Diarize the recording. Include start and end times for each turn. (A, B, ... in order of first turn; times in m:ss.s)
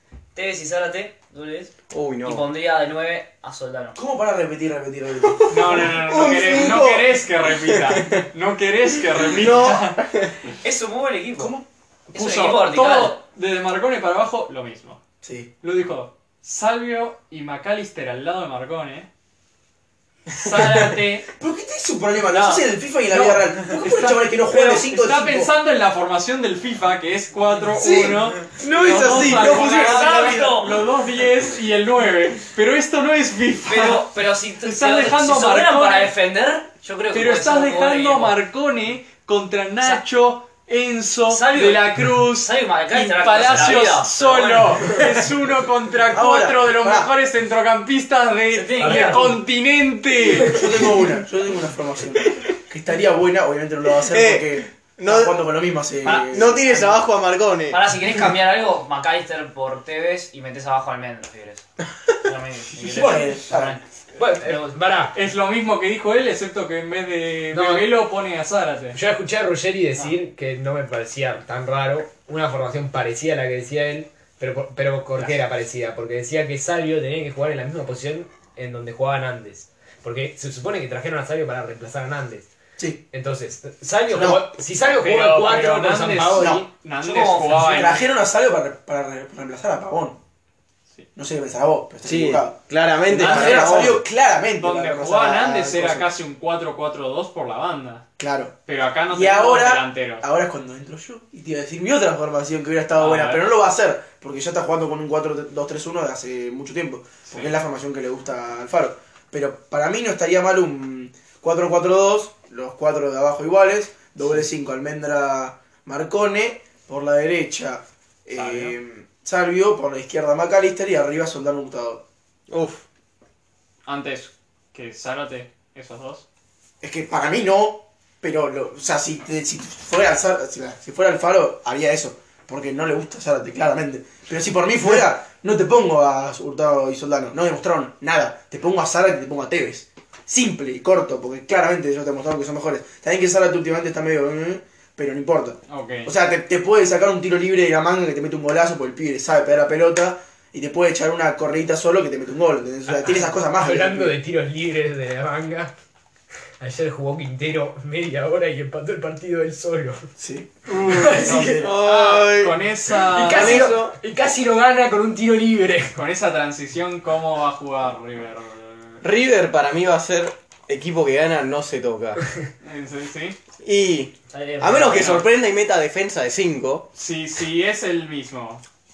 0:00.3-0:04.0 A
0:01.9-0:02.5 B
0:04.0-0:06.0 C
0:05.2-0:08.2 B
0:05.5-0:10.0 D
0:09.1-0:10.3 B
0:10.6-0:13.2 A
0:12.1-0:15.0 D
0:15.2-0:15.5 C
0:15.6-0:19.1 D
0:20.3-0:21.3 D
0:21.4-0:25.5 C
0:22.3-0:36.2 D
0:27.8-0:30.2 C
0:28.6-0:30.5 B
0:29.1-0:30.8 A
0:33.7-0:38.4 A
0:37.1-0:50.8 D
0:41.3-0:45.2 A
0:46.1-0:47.1 C
0:48.5-0:49.4 A
0:48.8-0:49.2 E
0:50.4-0:56.6 C
0:54.1-0:55.4 B
0:56.0-0:57.1 A
0:56.0-0:57.8 B
0:57.7-1:01.7 A
1:02.2-1:04.8 A
1:02.8-1:03.8 C
1:04.2-1:05.2 E
1:05.1-1:09.0 D
1:07.5-1:07.9 E
1:08.9-1:22.5 E
1:22.8-1:23.0 C
1:23.1-1:26.7 E
1:24.8-1:28.0 D
1:26.4-1:26.7 C
1:27.0-1:28.0 A
1:27.5-1:30.2 C
1:31.2-1:36.1 C
1:32.0-1:34.0 B
1:33.3-1:33.6 A
1:34.6-1:38.0 D
1:38.2-1:38.6 C
1:38.7-1:40.3 D
1:39.1-2:02.0 C
1:43.0-1:43.5 D
1:47.3-1:47.5 D
1:58.3-1:58.8 D
2:02.5-2:02.8 B
2:03.8-2:06.3 D
2:06.8-2:34.2 C
2:25.7-2:26.1 D
2:32.9-2:35.7 E
2:36.6-2:40.1 E
2:40.2-2:41.8 C
2:40.7-2:43.7 D
2:40.7-2:41.7 E
2:41.6-2:42.6 B
2:43.0-2:46.0 E
2:43.2-2:44.0 B
2:45.9-2:49.0 D
2:49.0-2:52.2 B
2:52.6-2:53.4 D
2:53.6-2:56.9 B
2:54.3-2:55.2 A
2:54.9-2:55.3 D
2:56.9-2:58.6 D